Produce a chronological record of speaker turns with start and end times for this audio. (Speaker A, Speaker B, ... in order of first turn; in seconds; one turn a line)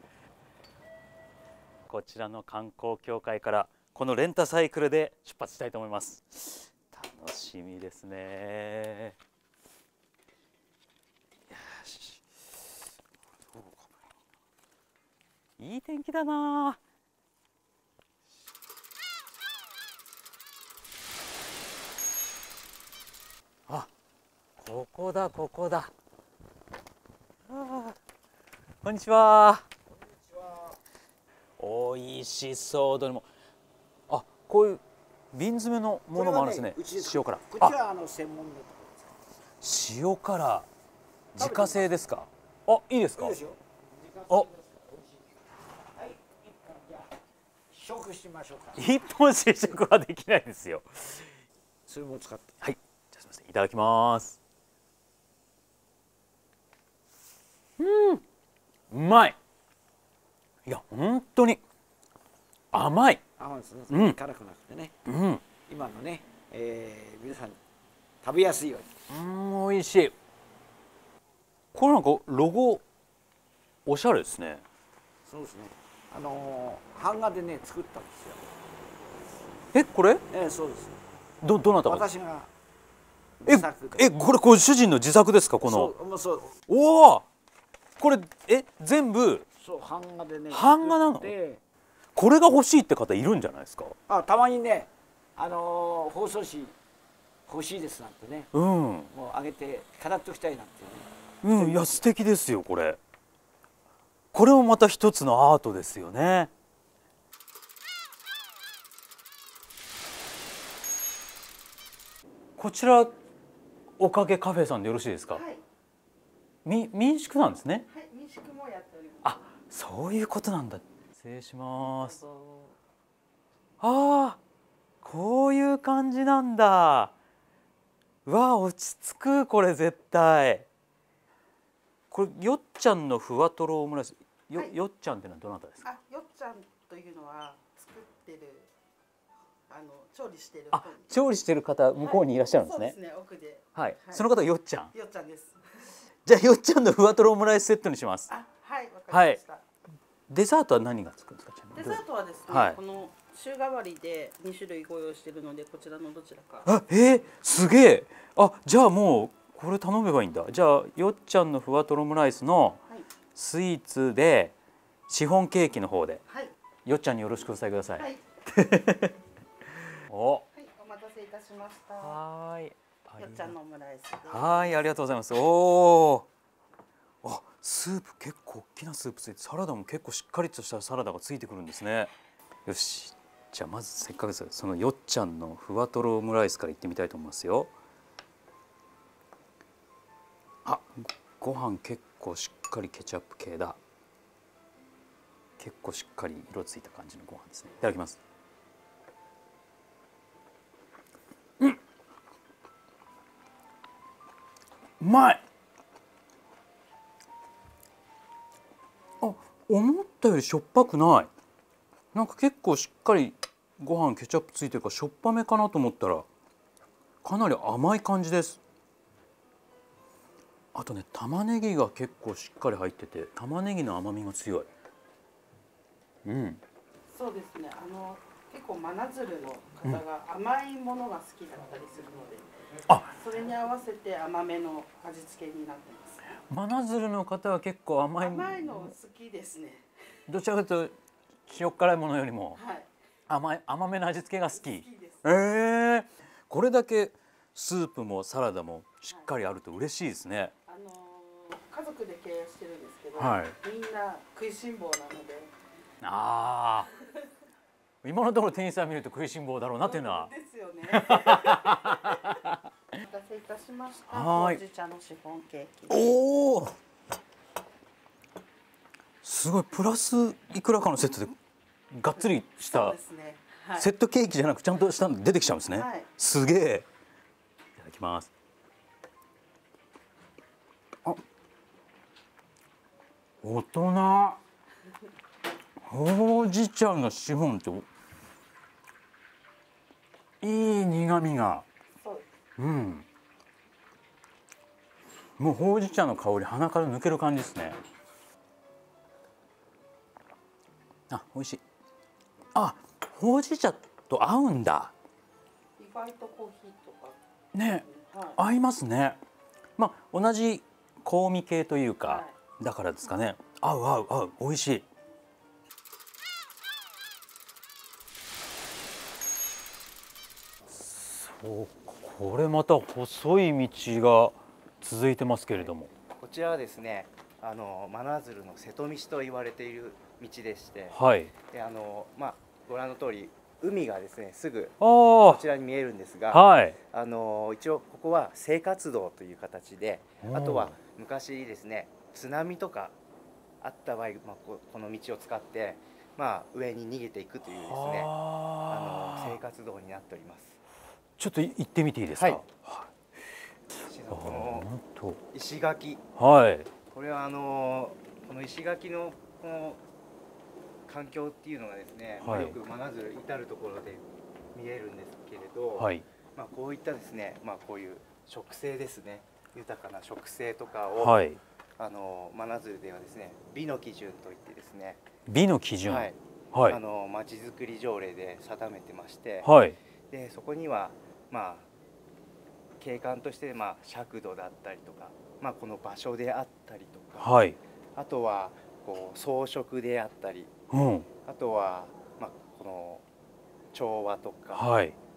Speaker A: 1.9-9.2
Speaker A: 11.5-12.2
Speaker A: 13.5-13.9
Speaker A: 15.6-16.8
Speaker A: 24.6-25.9
Speaker A: 27.5-28.0
Speaker A: 28.8-29.7
Speaker B: 30.2-30.8
Speaker A: 31.6-33.3
Speaker A: 34.1-37.8
Speaker B: 36.1-39.1
Speaker A: 39.6-40.7
Speaker B: 41.4-42.0
Speaker A: 41.4-43.4
Speaker B: 43.1-45.4
Speaker B: 46.0-47.1
Speaker B: 47.7-48.9
Speaker A: 48.8-51.3
Speaker B: 51.9-52.5
Speaker A: 52.6-54.4
Speaker A: 57.8-58.2
Speaker A: 58.9-59.4
Speaker A: 60.7-61.6
Speaker A: 62.7-63.2
Speaker B: 63.4-64.9
Speaker A: 63.9-64.2
Speaker A: 65.1-65.4
Speaker B: 65.6-67.6
Speaker B: 68.2-68.9
Speaker A: 69.1-70.1
Speaker A: 71.7-72.8
Speaker A: 73.9-74.6
Speaker B: 75.2-78.4
Speaker A: 79.7-80.2
Speaker B: 80.3-81.0
Speaker A: 81.4-82.1
Speaker B: 81.9-82.5
Speaker B: 83.4-84.1
Speaker A: 83.5-85.9
Speaker B: 85.6-86.5
Speaker A: 86.7-87.2
Speaker A: 88.0-89.5
Speaker B: 89.6-91.6
Speaker A: 90.5-91.3
Speaker A: 92.2-94.0
Speaker B: 94.1-96.8
Speaker B: 97.5-98.5
Speaker A: 98.5-99.1
Speaker B: 99.1-102.0
Speaker A: 101.4-103.0
Speaker A: 104.3-106.5
Speaker A: 112.6-113.1
Speaker A: 114.0-115.4
Speaker C: 115.3-115.6
Speaker A: 116.7-117.9
Speaker C: 117.9-119.4
Speaker A: 119.2-122.2
Speaker C: 121.9-122.8
Speaker A: 123.8-124.4
Speaker A: 125.0-127.1
Speaker A: 128.3-130.7
Speaker A: 132.1-135.8
Speaker C: 135.8-138.7
Speaker C: 139.7-141.3
Speaker A: 140.7-143.0
Speaker C: 142.0-144.2
Speaker A: 143.8-144.9
Speaker C: 144.9-145.9
Speaker A: 146.2-148.3
Speaker C: 148.3-149.6
Speaker A: 149.1-149.4
Speaker A: 150.3-152.8
Speaker C: 151.7-156.7
Speaker A: 156.7-162.8
Speaker A: 163.3-164.6
Speaker A: 165.1-166.2
Speaker C: 166.3-166.5
Speaker A: 166.9-169.1
Speaker A: 170.1-170.5
Speaker C: 170.5-172.2
Speaker A: 172.0-173.6
Speaker C: 173.2-174.9
Speaker A: 174.3-176.3
Speaker A: 177.2-182.1
Speaker A: 182.7-187.7
Speaker A: 190.7-193.8
Speaker A: 195.6-198.2
Speaker A: 205.0-205.4
Speaker A: 209.2-211.3
Speaker A: 212.1-216.3
Speaker A: 217.2-218.6
Speaker A: 220.8-224.7
Speaker A: 226.2-226.6
Speaker C: 227.1-232.5
Speaker A: 232.9-233.1
Speaker C: 233.1-236.2
Speaker A: 236.5-238.9
Speaker C: 238.2-239.9
Speaker A: 240.3-240.9
Speaker A: 241.5-242.6
Speaker C: 242.6-242.9
Speaker A: 243.3-250.5
Speaker C: 244.6-245.2
Speaker C: 250.7-255.5
Speaker A: 253.2-253.6
Speaker A: 256.0-256.9
Speaker A: 258.0-260.3
Speaker C: 259.8-262.4
Speaker A: 260.9-262.3
Speaker C: 263.0-266.2
Speaker A: 264.1-264.6
Speaker A: 265.9-266.8
Speaker A: 269.2-271.3
Speaker A: 271.9-273.0
Speaker C: 272.6-273.9
Speaker A: 273.8-276.9
Speaker C: 275.7-276.1
Speaker A: 277.8-278.3
Speaker A: 283.4-284.4
Speaker A: 285.9-287.9
Speaker A: 290.4-291.6
Speaker C: 292.0-292.3
Speaker A: 292.6-293.1
Speaker A: 295.4-297.8
Speaker A: 301.1-301.6
Speaker A: 302.6-304.9
Speaker C: 305.8-308.4
Speaker A: 307.5-309.2
Speaker A: 309.8-314.9
Speaker C: 312.0-312.4
Speaker A: 320.7-325.9
Speaker D: 325.5-331.0
Speaker A: 330.9-331.3
Speaker D: 331.5-342.9
Speaker A: 334.8-335.4
Speaker A: 336.3-336.8
Speaker A: 340.2-340.8
Speaker D: 343.6-348.1
Speaker A: 347.5-349.4
Speaker D: 348.7-350.6
Speaker A: 351.2-352.9
Speaker D: 352.1-352.4
Speaker D: 353.8-354.7
Speaker A: 354.1-355.2
Speaker D: 355.3-356.0
Speaker A: 356.2-356.7
Speaker D: 356.9-359.8
Speaker D: 360.9-371.2
Speaker A: 362.2-362.6
Speaker A: 365.8-366.1
Speaker A: 371.0-371.4
Speaker D: 371.8-375.0
Speaker A: 375.3-376.8
Speaker D: 375.9-379.5
Speaker A: 379.4-379.8
Speaker D: 380.1-381.7
Speaker D: 382.8-387.4
Speaker A: 387.2-387.6
Speaker D: 388.0-390.5
Speaker A: 390.7-391.1
Speaker D: 391.2-393.1
Speaker D: 393.7-394.7
Speaker A: 394.5-394.9